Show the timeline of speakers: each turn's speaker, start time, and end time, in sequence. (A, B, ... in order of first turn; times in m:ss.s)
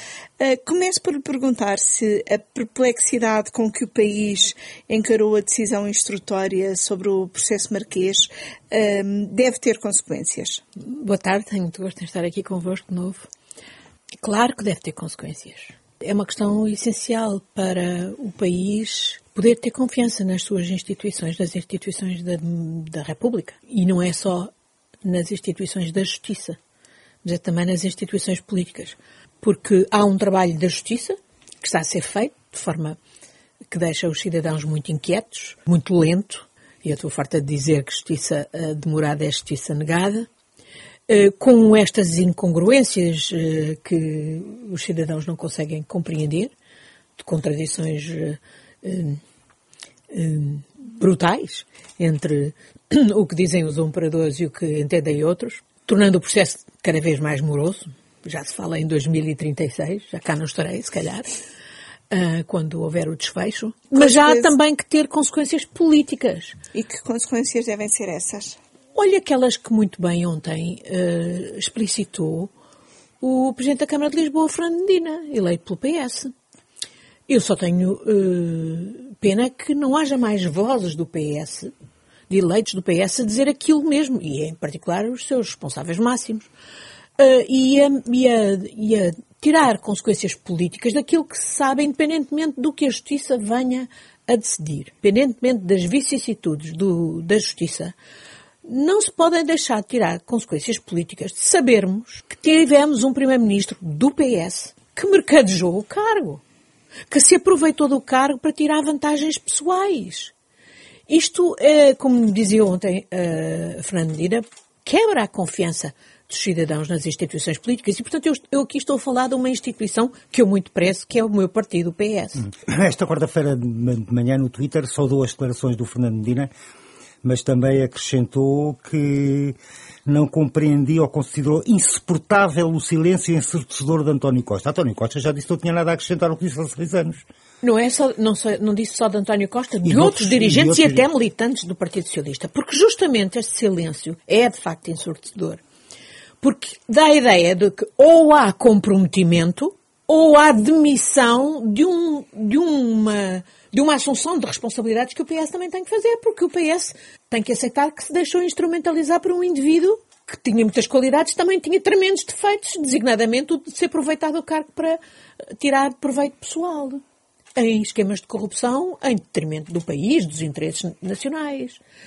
0:00.4-0:10.6 A
0:10.8-0:13.3 B
0:14.2-0:24.5 B
0:25.0-0:26.6 B
0:27.2-0:33.0 B
0:33.7-0:40.3 B
0:41.1-0:46.5 B
0:47.2-0:49.2 B
0:50.1-1:01.3 B
1:02.1-1:06.6 B
1:03.9-1:04.5 A
1:06.7-1:08.6 A
1:08.9-1:12.5 B
1:13.2-1:16.3 B
1:17.3-1:21.7 B
1:22.3-1:26.5 B
1:27.2-1:37.9 B
1:38.6-1:46.4 B
1:47.1-1:50.3 B
1:51.1-2:02.4 B
2:02.4-2:06.5 C
2:07.2-2:17.2 C
2:17.6-2:25.6 B
2:19.8-2:21.1 C
2:26.4-2:45.0 B
2:45.6-2:47.0 B
2:47.6-2:51.8 B